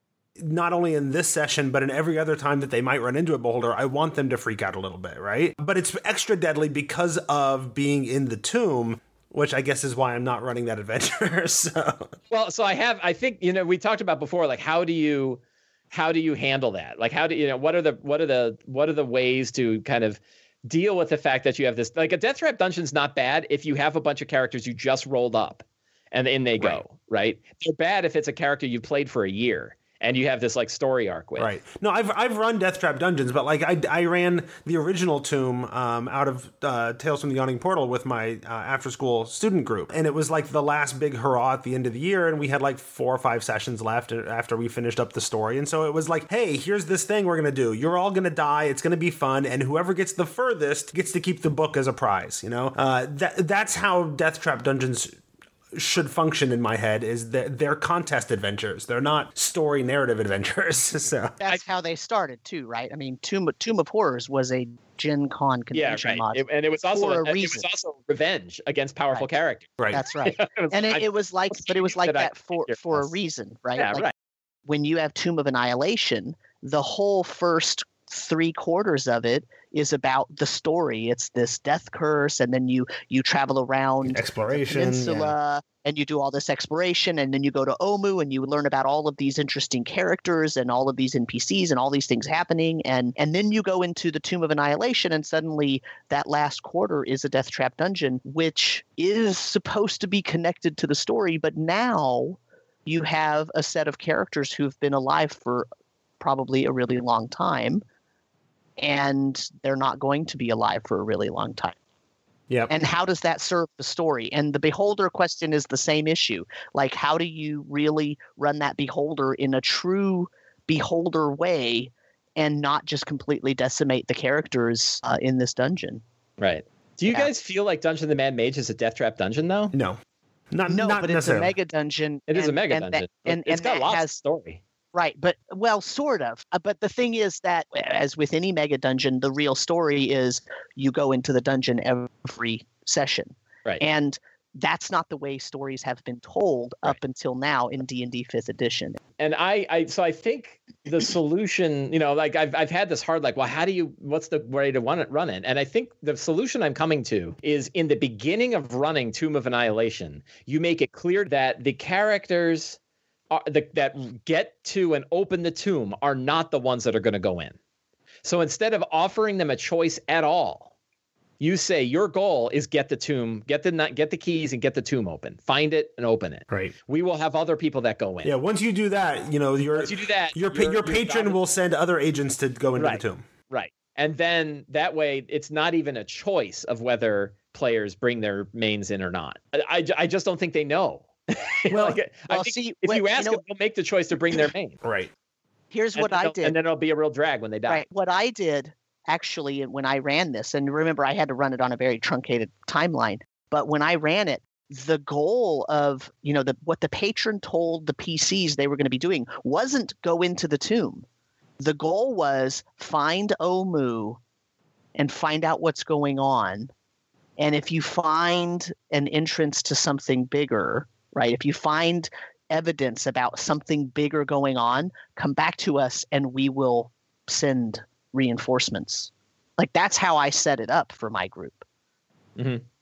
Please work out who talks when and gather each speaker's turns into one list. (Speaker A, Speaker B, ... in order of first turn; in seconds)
Speaker A: 0.4-12.1, 31.4-55.2, 55.7-61.4, 84.0-85.3, 129.7-130.0, 130.5-131.5, 178.2-183.2, 194.8-195.1
Speaker B: 12.3-31.5, 65.7-73.1, 73.8-74.1, 126.4-129.7, 132.3-134.6, 149.2-162.8, 163.3-167.6, 168.2-170.7, 171.4-178.3, 179.8-181.4, 182.8-194.8, 195.9-197.8, 232.3-232.6
Speaker C: 61.4-67.6, 69.9-74.1, 74.7-105.7, 106.2-107.8, 108.8-111.8, 112.7-126.0, 130.7-134.2, 134.9-149.0, 191.7-193.4, 195.7-196.6, 197.7-211.0, 211.6-214.2, 214.9-216.7, 217.4-231.6